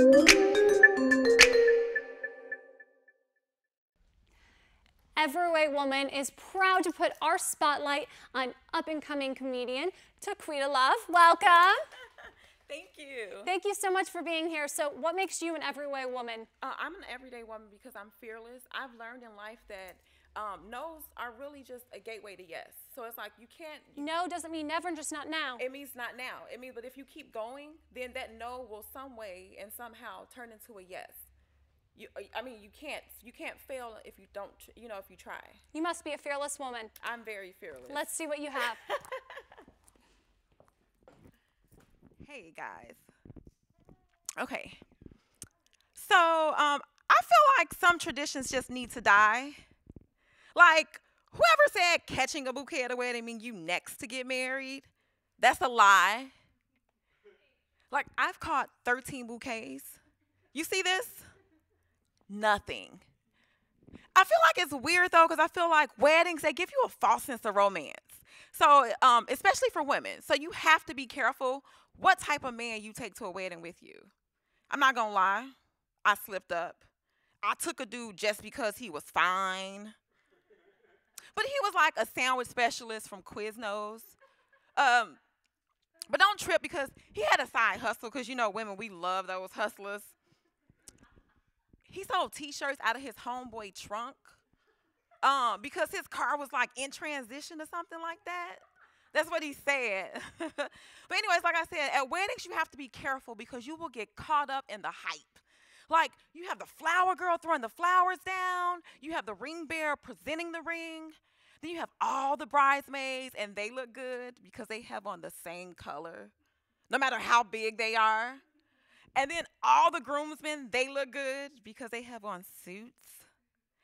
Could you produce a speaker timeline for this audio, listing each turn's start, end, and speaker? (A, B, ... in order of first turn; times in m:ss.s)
0:05.2-0:11.8 A
0:12.7-0:13.5 B
0:13.4-0:16.5 A
0:16.6-0:24.0 B
0:24.0-0:25.6 A
0:25.6-0:31.2 B
0:31.9-0:35.6 B
0:35.7-0:36.9 A
0:37.0-0:38.0 B
0:37.9-0:38.8 A
0:38.8-0:39.2 B
0:42.2-0:43.0 B
0:44.4-0:44.8 B
0:46.0-0:49.6 B
0:50.5-0:56.3 B
0:57.9-1:00.0 B
1:00.5-1:01.3 B
1:02.3-1:03.0 B
1:04.1-1:14.1 B
1:14.7-1:16.8 B
1:17.4-1:19.9 B
1:21.3-1:24.2 B
1:24.8-1:25.2 B
1:26.1-1:30.1 B
1:31.9-1:34.4 B
1:35.2-1:56.3 B
1:56.9-1:58.4 B
1:59.2-2:03.3 B